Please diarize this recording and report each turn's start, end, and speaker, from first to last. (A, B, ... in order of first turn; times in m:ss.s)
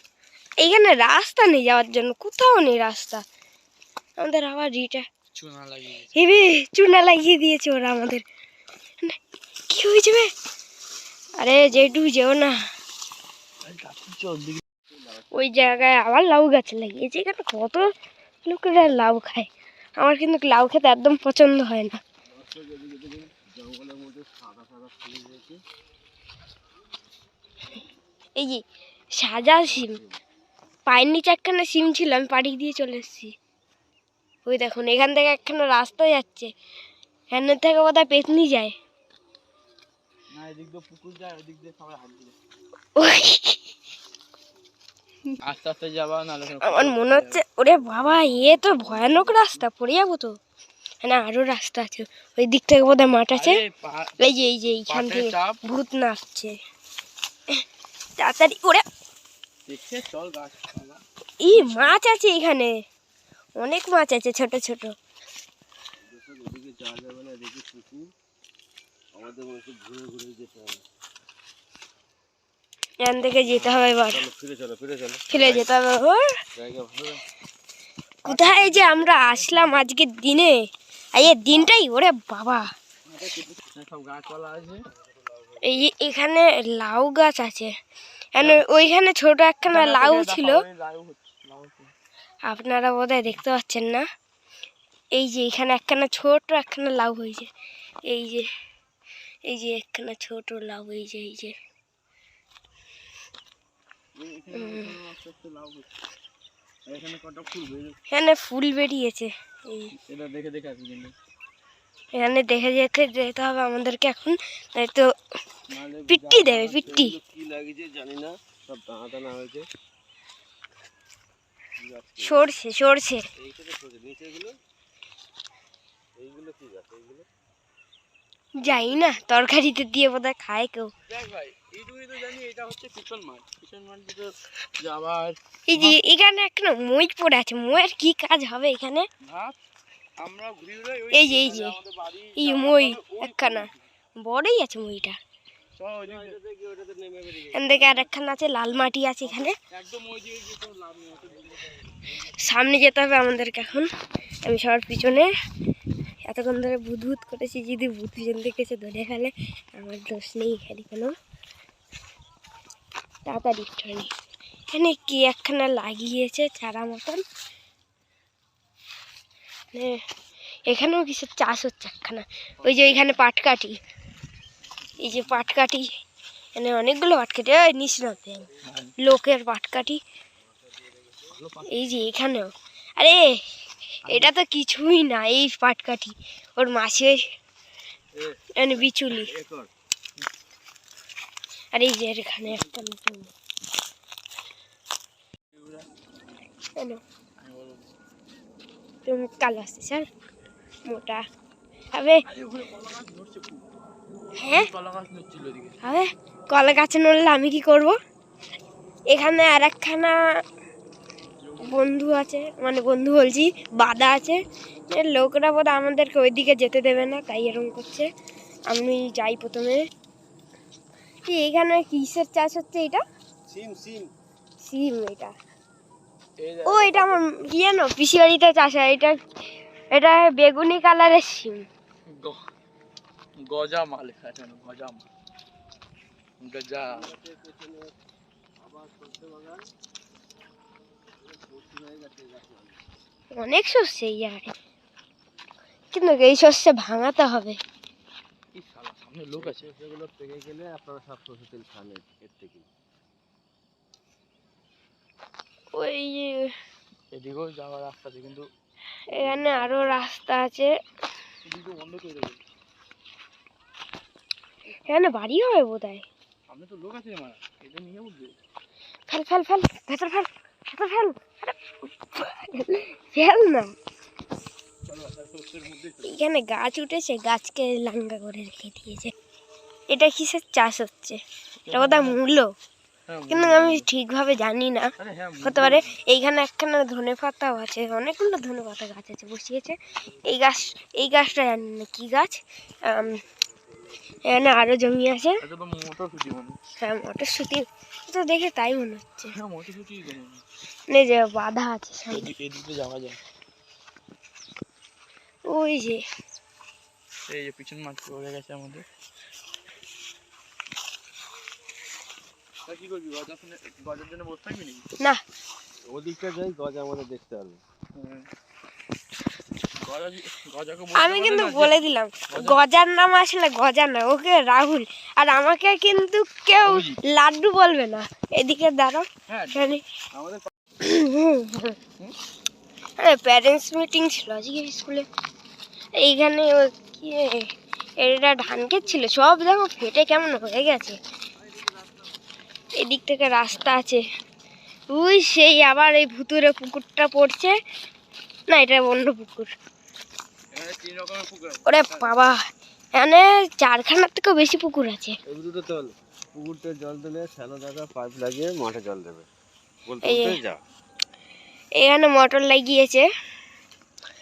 0:00.6-0:03.2 A
0:04.2-0:05.1 A
0:05.4-0:06.4 B
0:06.1-0:08.2 A
0:09.7-0:10.3 A
0:11.4-0:12.7 A
0:13.6-0:14.6 B
0:15.3-0:17.9 A
0:18.4-0:22.0 A
0:22.3-0:25.6 C
0:28.4-0:28.6 A
0:29.2-0:30.0 A
0:29.6-0:30.2 C
0:30.9-0:33.3 A
0:34.5-0:36.5 A
0:37.3-0:38.8 A
0:40.3-0:42.4 B
0:43.0-0:43.7 A
0:45.4-0:49.5 B
0:46.6-0:50.4 A
0:51.0-0:53.6 A
0:53.3-0:54.2 B
0:54.2-0:56.6 A
0:54.9-0:55.6 B
0:58.2-0:58.8 A
0:59.7-1:02.0 B
1:01.4-1:02.8 A
1:03.6-1:04.9 A
1:06.1-1:08.1 C
1:09.1-1:10.8 C
1:13.0-1:14.2 A
1:13.5-1:15.7 C
1:15.3-1:16.3 A
1:16.6-1:17.2 C
1:18.2-1:22.7 A
1:18.2-1:19.9 B
1:23.1-1:24.9 B
1:25.3-1:25.7 C
1:25.6-1:27.7 A
1:28.4-1:30.6 A
1:29.7-1:31.9 B
1:32.4-1:34.1 A
1:35.1-1:37.5 A
1:38.1-1:38.5 A
1:39.5-1:41.6 A
1:44.2-1:45.9 B
1:44.5-1:45.0 A
1:46.9-1:48.0 B
1:48.1-1:49.9 A
1:49.9-1:51.1 B
1:52.1-1:55.1 A
1:55.7-1:57.0 B
1:56.1-1:57.2 A
1:56.8-1:59.7 C
2:01.8-2:02.5 C
2:02.2-2:03.3 A
2:03.4-2:04.6 C
2:06.2-2:07.3 C
2:08.6-2:10.9 A
2:11.0-2:16.0 B
2:15.7-2:19.1 A
2:19.2-2:19.6 B
2:20.2-2:23.7 B
2:21.1-2:21.8 A
2:22.4-2:23.7 A
2:24.2-2:25.2 A
2:25.8-2:26.4 B
2:26.0-2:28.1 C
2:27.5-2:29.6 A
2:29.6-2:32.0 B
2:32.1-2:33.9 A
2:34.4-2:35.3 A
2:36.3-2:41.1 A
2:43.2-2:44.1 A
2:44.7-2:47.2 A
2:49.7-2:50.0 A
2:50.7-2:53.8 A
2:52.6-2:53.2 B
2:55.0-2:55.9 A
2:56.6-3:00.0 A
2:58.6-2:58.9 B
3:00.4-3:01.3 C
3:01.3-3:02.1 B
3:01.7-3:03.4 A
3:04.0-3:07.2 A
3:04.1-3:04.3 B
3:08.2-3:09.7 C
3:08.6-3:09.3 A
3:11.7-3:13.3 A
3:15.5-3:15.9 B
3:17.4-3:17.9 B
3:19.1-3:20.1 A
3:20.9-3:21.2 A
3:21.9-3:22.2 A
3:22.2-3:23.7 B
3:24.4-3:24.7 A
3:24.4-3:25.8 B
3:25.8-3:28.0 A
3:29.1-3:30.2 A
3:31.4-3:31.8 B
3:31.6-3:38.1 A
3:38.7-3:39.8 A
3:41.2-3:43.0 A
3:43.5-3:44.1 C
3:44.6-3:45.3 A
3:46.4-3:47.2 B
3:46.6-3:49.2 A
3:49.9-3:51.7 A
3:52.1-3:52.5 B
3:53.4-3:55.1 B
3:56.4-3:57.1 B
3:56.8-3:57.9 C
3:58.6-3:59.7 C
4:01.2-4:02.8 C
4:03.3-4:04.5 A
4:05.9-4:07.6 A
4:08.5-4:09.7 B
4:09.4-4:12.7 C
4:15.7-4:16.5 A
4:17.1-4:18.5 B
4:19.1-4:20.7 A
4:19.1-4:20.0 C
4:21.4-4:22.4 B
4:24.9-4:26.1 A
4:26.5-4:28.4 B
4:29.1-4:33.7 A
4:34.9-4:36.2 B
4:36.0-4:39.1 A
4:39.9-4:41.2 A
4:41.6-4:42.2 B
4:41.7-4:42.5 A
4:43.1-4:43.9 B
4:43.3-4:53.2 A
4:45.0-4:45.9 B
4:50.1-4:51.3 C
4:53.4-4:54.3 C
4:54.2-4:55.4 A
4:55.4-4:56.6 B
4:56.8-4:59.3 A
4:59.4-5:00.4 B
5:00.9-5:02.3 A
5:02.1-5:03.2 B
5:05.4-5:06.0 A
5:07.3-5:08.9 B
5:12.7-5:14.9 B
5:15.9-5:17.6 C
5:18.0-5:18.3 B
5:19.8-5:21.8 B
5:20.9-5:29.8 A
5:22.3-5:22.6 B
5:26.6-5:27.0 B
5:29.3-5:30.5 B
5:30.8-5:31.8 A
5:33.0-5:35.1 A
5:36.0-5:41.0 A
5:42.8-5:44.0 A
5:44.9-5:47.6 A
5:48.5-5:49.5 A
5:50.5-5:52.1 B
5:51.6-5:52.4 A
5:53.0-5:55.2 A
5:55.3-5:59.3 C
5:59.9-6:00.6 C
6:00.0-6:00.4 A
6:01.8-6:03.1 A